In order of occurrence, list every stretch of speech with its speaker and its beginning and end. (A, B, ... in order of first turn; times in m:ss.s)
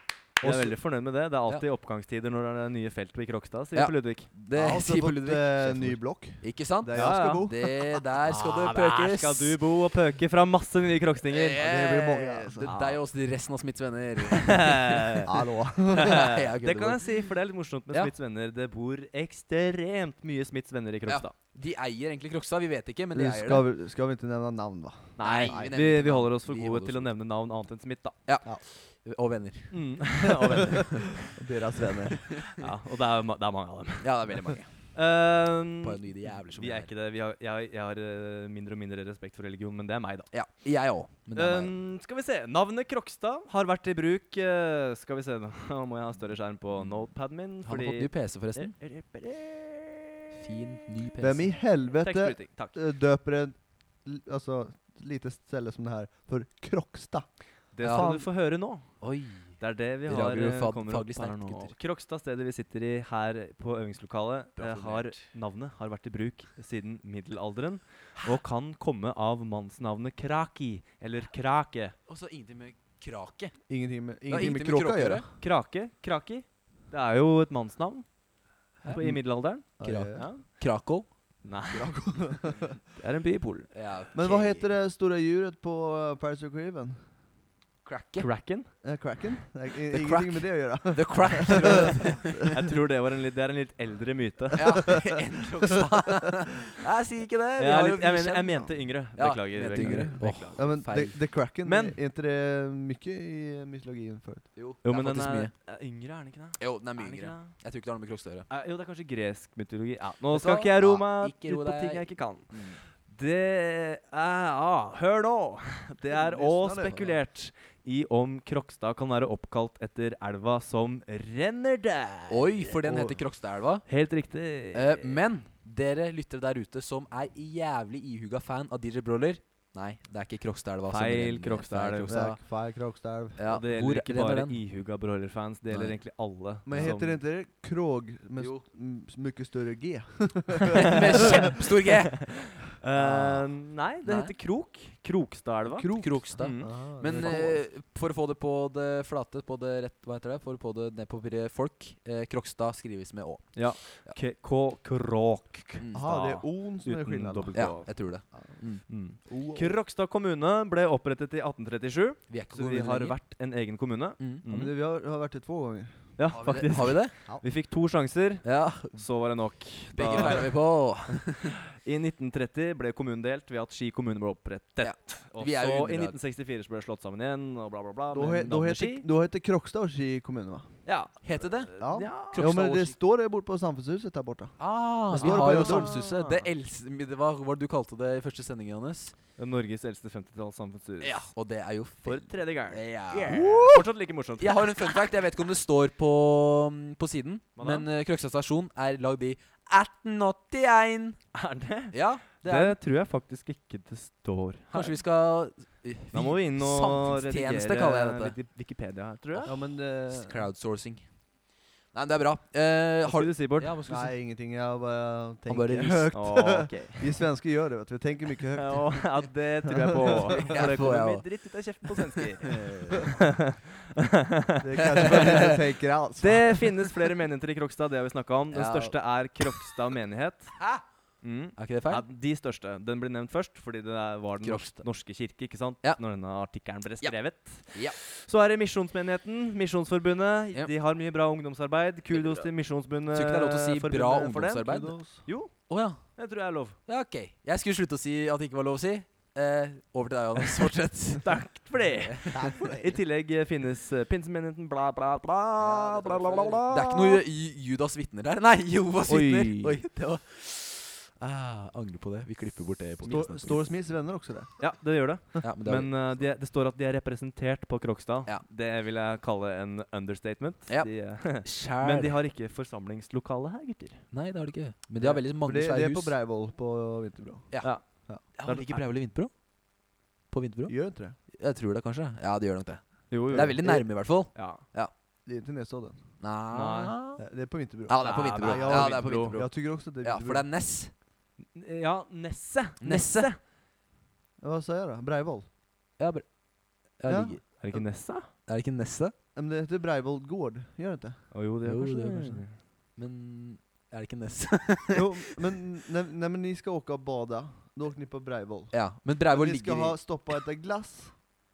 0:00.4-0:04.3 A
0:00.4-0:00.7 B
0:03.7-0:09.6 C
0:04.5-0:07.8 B
0:06.9-0:07.4 A
0:08.3-0:11.6 A
0:11.3-0:15.3 C
0:11.6-0:12.7 B
0:12.6-0:13.0 A
0:14.3-0:15.3 A
0:15.3-0:16.2 B
0:15.9-0:17.2 C
0:15.9-0:21.3 A
0:21.1-0:23.6 C
0:23.1-0:25.8 B
0:25.2-0:28.2 A
0:25.2-0:27.1 C
0:29.0-0:29.8 C
0:29.7-0:31.3 A
0:31.2-0:32.3 B
0:32.5-0:34.1 A
0:34.0-0:34.7 C
0:34.9-0:36.0 A
0:35.8-0:36.9 C
0:36.5-0:40.3 A
0:40.3-0:41.7 C
0:41.4-0:50.1 A
0:47.6-0:48.7 C
0:50.3-0:51.5 C
0:51.2-0:57.3 B
0:51.9-0:52.8 A
0:57.7-0:58.9 A
0:57.8-0:58.2 B
0:57.8-0:58.2 C
0:59.0-0:59.5 C
0:59.6-1:11.9 A
1:00.1-1:01.7 C
1:04.6-1:05.2 C
1:12.1-1:13.6 C
1:13.7-1:15.2 B
1:14.3-1:15.3 C
1:15.4-1:18.0 A
1:18.8-1:19.2 C
1:18.8-1:20.4 A
1:19.8-1:20.3 B
1:19.8-1:21.1 C
1:21.4-1:22.0 A
1:21.7-1:22.8 B
1:23.0-1:23.7 A
1:23.7-1:24.7 C
1:24.1-1:27.0 B
1:27.8-1:28.3 C
1:28.2-1:28.7 A
1:28.8-1:32.6 B
1:29.9-1:32.4 C
1:31.7-1:35.0 A
1:34.6-1:41.2 C
1:37.6-1:40.6 A
1:39.7-1:44.5 B
1:41.6-1:42.0 A
1:44.6-1:45.5 C
1:44.8-1:47.5 A
1:46.6-1:48.5 C
1:48.5-1:52.5 A
1:50.3-1:52.8 C
1:53.1-2:03.0 A
1:56.0-1:57.0 B
2:02.3-2:03.8 C
2:03.9-2:05.2 A
2:04.7-2:12.4 C
2:10.9-2:12.1 A
2:12.1-2:13.4 B
2:13.4-2:14.6 C
2:13.5-2:17.2 A
2:15.7-2:16.0 C
2:16.6-2:21.4 B
2:18.4-2:18.6 C
2:20.8-2:22.4 C
2:21.1-2:21.6 A
2:22.2-2:27.4 A
2:22.9-2:23.4 C
2:24.0-2:24.3 C
2:25.7-2:27.6 B
2:26.0-2:34.2 C
2:33.5-2:37.9 A
2:35.8-2:36.1 C
2:35.9-2:37.8 B
2:37.5-2:38.9 C
2:38.9-2:44.7 A
2:39.3-2:39.7 B
2:42.3-2:43.2 C
2:44.2-2:44.5 C
2:44.5-2:46.1 B
2:46.2-2:50.5 A
2:46.3-2:47.1 C
2:48.4-2:49.0 C
2:49.9-2:51.5 C
2:51.8-2:59.0 A
2:54.8-2:56.2 C
2:58.1-3:00.7 B
3:00.8-3:02.6 A
3:01.2-3:01.7 C
3:01.8-3:06.0 B
3:02.3-3:02.9 C
3:04.6-3:09.1 C
3:05.1-3:06.5 A
3:09.4-3:11.2 A
3:11.0-3:13.8 C
3:12.0-3:14.7 A
3:13.2-3:13.8 B
3:14.4-3:21.2 C
3:17.6-3:17.9 A
3:21.3-3:25.0 A
3:21.9-3:22.8 C
3:24.7-3:28.3 C
3:26.1-3:29.5 A
3:29.4-3:30.4 B
3:30.1-3:31.0 C
3:31.9-3:34.1 C
3:33.0-3:33.7 A
3:33.8-3:39.1 B
3:35.5-3:36.2 C
3:36.1-3:37.1 A
3:38.5-3:45.2 A
3:39.6-3:40.5 B
3:40.3-3:41.2 C
3:42.4-3:43.0 C
3:44.6-3:46.6 B
3:45.0-3:45.5 C
3:46.2-3:50.5 A
3:48.5-3:48.9 C
3:50.6-3:50.8 C
3:51.2-4:05.5 A
3:51.6-3:52.0 C
3:54.4-3:54.8 C
3:57.7-3:58.0 C
4:02.1-4:02.5 C
4:03.1-4:04.9 C
4:04.6-4:05.2 B
4:05.7-4:06.1 C
4:06.2-4:06.8 A
4:06.9-4:11.3 C
4:11.2-4:17.2 A
4:12.0-4:12.5 C
4:12.3-4:12.8 B
4:15.6-4:23.7 C
4:16.0-4:16.4 B
4:19.1-4:19.8 A
4:23.0-4:24.6 B
4:24.6-4:34.0 A
4:25.4-4:26.2 C
4:30.7-4:32.2 C
4:34.1-4:36.2 C
4:35.0-4:38.2 B
4:37.5-4:39.3 C
4:37.6-4:38.8 A
4:40.3-4:44.9 C
4:40.7-4:41.2 B
4:43.1-4:43.7 A
4:43.3-4:43.9 B
4:44.3-4:44.6 A
4:45.2-4:46.0 B
4:46.2-4:47.2 C
4:46.5-4:46.9 A
4:47.2-4:50.5 B
4:47.9-4:50.9 C
4:48.0-4:49.4 A
4:51.5-4:53.4 A
4:52.8-4:53.3 C
4:54.4-4:55.5 B
4:56.0-4:56.4 C
4:56.9-4:59.1 C
4:57.0-4:57.5 B
4:57.6-4:58.3 A
4:59.3-5:01.3 B
5:01.3-5:02.6 A
5:01.6-5:05.1 C
5:04.9-5:11.2 B
5:08.7-5:10.0 C